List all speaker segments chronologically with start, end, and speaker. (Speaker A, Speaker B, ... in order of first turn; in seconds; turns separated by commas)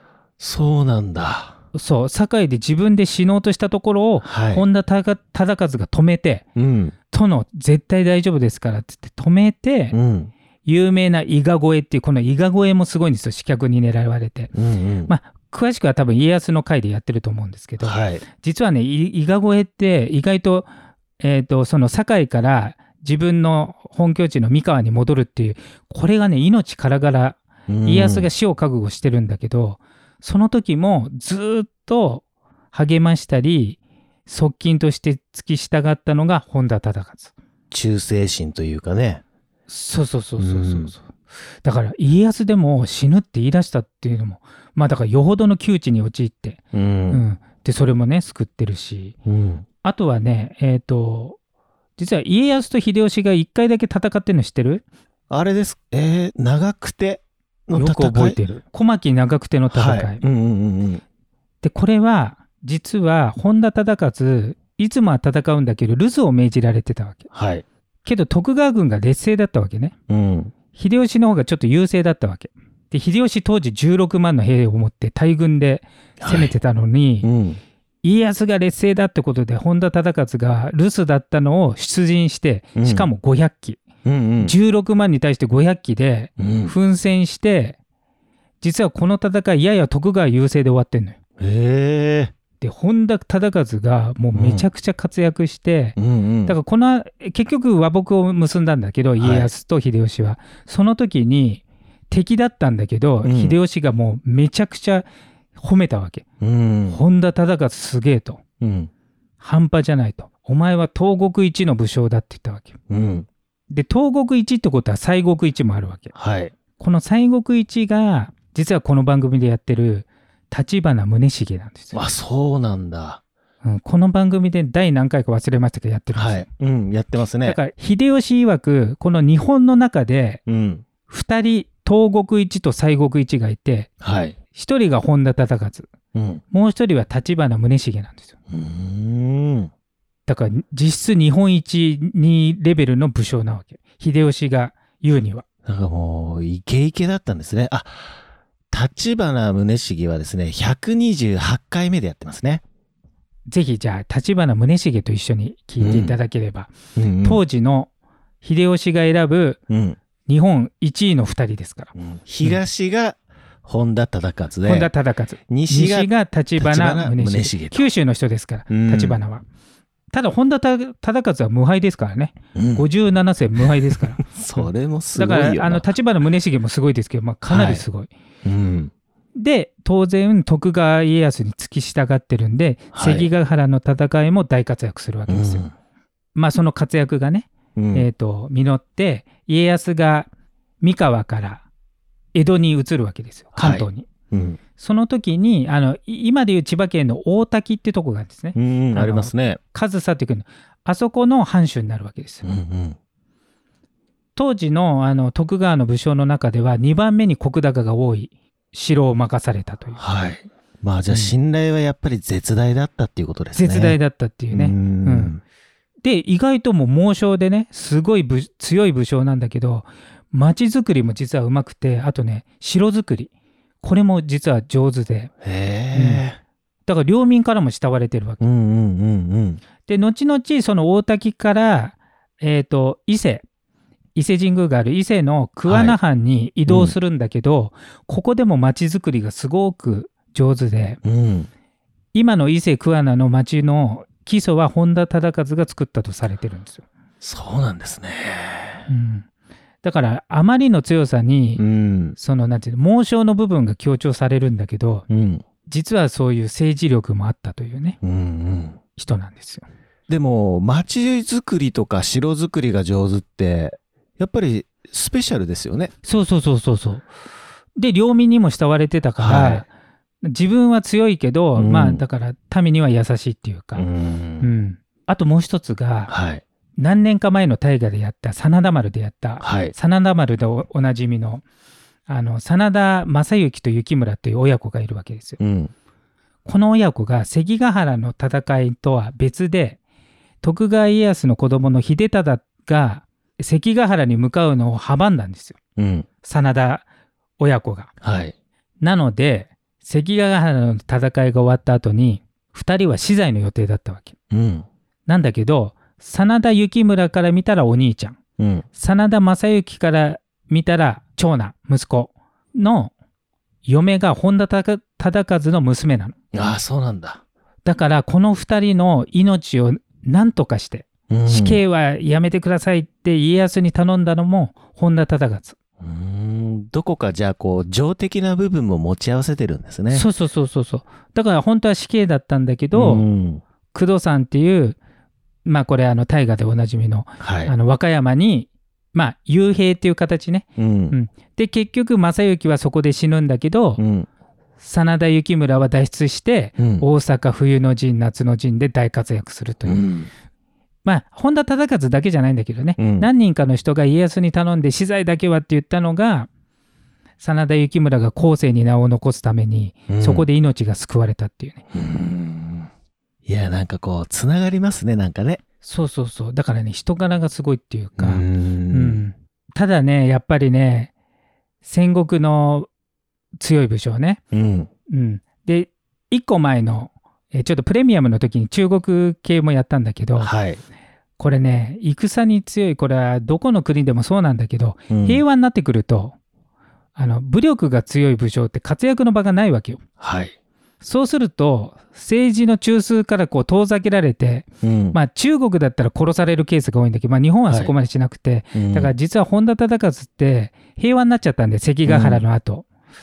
Speaker A: 0.4-1.6, Speaker B: 1.7-6.5, Speaker A: 4.2-4.6, Speaker A: 6.6-6.9, Speaker B: 7.1-9.9, Speaker A: 9.9-10.3, Speaker B: 10.7-14.5, Speaker A: 14.5-15.1, Speaker B: 15.1-37.3, Speaker A: 17.8-18.2, Speaker A: 27.7-28.3, Speaker A: 37.7-39.2, Speaker B: 39.7-41.1, Speaker A: 40.4-40.9, Speaker B: 41.6-49.2, Speaker A: 46.7-47.2, Speaker A: 49.3-49.6, Speaker B: 49.8-51.4, Speaker B: 52.0-54.8, Speaker A: 55.3-58.6, Speaker B: 57.8-60.2, Speaker A: 59.7-61.0, Speaker B: 61.6-67.3, Speaker A: 67.3-67.7, Speaker B: 68.0-70.0, Speaker A: 70.1-70.5, Speaker B: 70.7-77.3, Speaker A: 76.2-76.5, Speaker A: 77.2-77.6, Speaker B: 78.0-83.8, Speaker A: 82.8-83.1, Speaker A: 84.0-84.5, Speaker B: 84.4-87.8, Speaker A: 86.4-86.7, Speaker B: 88.6-91.2, Speaker A: 91.4-92.3, Speaker B: 92.6-106.3, Speaker A: 94.3-94.7, Speaker A: 96.0-96.6, Speaker A: 99.2-99.5, Speaker A: 103.2-103.6, Speaker A: 106.4-107.0, Speaker B: 106.9-108.4, Speaker A: 108.6-108.9, Speaker B: 109.4-112.8, Speaker A: 112.9-113.3, Speaker B: 113.7-116.1, Speaker A: 116.1-116.5, Speaker B: 116.8-122.0, Speaker A: 121.9-123.2, Speaker B: 123.6-126.5, Speaker A: 126.2-127.6, Speaker B: 127.4-130.4, Speaker A: 130.5-130.8, Speaker B: 131.1-133.9, Speaker A: 134.0-134.4, Speaker B: 134.5-135.9, Speaker A: 136.1-136.4, Speaker B: 136.5-138.3, Speaker A: 138.5-139.7, Speaker B: 140.3-145.4, Speaker A: 145.7-148.2, Speaker A: 148.7-152.6, Speaker B: 153.5-157.9, Speaker A: 155.8-156.2, Speaker A: 157.0-157.4, Speaker B: 158.4-159.6, Speaker A: 159.7-160.0, Speaker B: 160.3-162.6, Speaker A: 161.9-164.9, Speaker B: 164.7-169.4, Speaker A: 165.5-167.9, Speaker A: 168.7-169.2, Speaker B: 170.1-178.1, Speaker A: 172.6-172.9, Speaker A: 173.6-175.9, Speaker A: 177.5-177.8, Speaker A: 178.4-178.9, Speaker B: 179.3-185.7, Speaker A: 182.9-183.3, Speaker A: 185.3-185.7, Speaker B: 186.3-190.3, Speaker A: 187.8-188.1, Speaker B: 190.8-191.6, Speaker B: 192.3-194.1, Speaker A: 193.5-194.6, Speaker B: 194.8-202.4, Speaker A: 198.6-199.6, Speaker A: 202.4-203.0, Speaker B: 204.4-210.0, Speaker A: 210.0-214.0, Speaker B: 211.1-211.3, Speaker B: 213.6-215.3, Speaker A: 214.5-215.4, Speaker B: 216.0-225.3, Speaker A: 225.4-226.4, Speaker B: 225.9-226.2, Speaker B: 226.9-228.4, Speaker A: 228.4-229.6, Speaker B: 229.9-233.4, Speaker B: 234.2-241.0, Speaker A: 235.7-236.0, Speaker A: 236.7-237.0, Speaker A: 241.0-241.5, Speaker B: 242.1-246.8, Speaker A: 247.2-248.9, Speaker B: 248.9-249.3, Speaker B: 249.8-251.6, Speaker A: 251.6-252.2, Speaker B: 252.2-255.1, Speaker A: 255.1-255.4, Speaker B: 255.7-258.0, Speaker A: 258.0-258.8, Speaker B: 259.0-259.7, Speaker A: 260.1-265.9, Speaker B: 266.0-267.1, Speaker B: 267.8-269.7, Speaker A: 269.2-269.6, Speaker B: 270.2-273.9, Speaker A: 271.6-272.0, Speaker A: 273.8-274.5, Speaker B: 274.4-276.1, Speaker A: 276.1-276.4, Speaker B: 276.8-281.4, Speaker A: 279.4-279.7, Speaker B: 282.1-285.4, Speaker A: 285.4-285.7, Speaker B: 286.5-289.8, Speaker B: 290.4-295.6, Speaker A: 295.8-296.1, Speaker B: 296.2-296.9, Speaker B: 297.4-297.9, Speaker A: 298.0-298.3, Speaker B: 298.8-304.1, Speaker A: 304.3-304.7, Speaker B: 305.1-308.2, Speaker A: 308.4-308.6, Speaker B: 308.8-312.9, Speaker B: 313.6-316.2, Speaker A: 316.3-317.2, Speaker B: 317.6-325.6, Speaker A: 321.1-321.6, Speaker A: 325.8-330.1, Speaker B: 329.9-333.1, Speaker A: 332.7-333.4, Speaker B: 333.7-334.8, Speaker B: 335.4-343.8, Speaker A: 337.2-337.5, Speaker A: 340.6-341.0, Speaker A: 343.8-344.1, Speaker B: 344.6-349.9, Speaker A: 346.6-346.9, Speaker A: 349.7-350.1, Speaker B: 350.9-356.3, Speaker A: 352.8-353.1, Speaker B: 357.2-361.6, Speaker A: 359.9-360.3, Speaker A: 361.7-362.7, Speaker A: 363.3-365.4, Speaker B: 365.6-370.9, Speaker A: 368.0-369.0, Speaker B: 371.6-372.7, Speaker B: 373.4-374.2, Speaker A: 374.3-374.7, Speaker B: 374.9-380.3, Speaker A: 380.2-380.6, Speaker B: 381.2-386.1, Speaker A: 384.9-385.2, Speaker B: 387.0-389.8, Speaker A: 390.0-390.4, Speaker B: 390.8-402.7, Speaker A: 394.6-395.0, Speaker A: 398.6-398.9, Speaker A: 401.9-402.2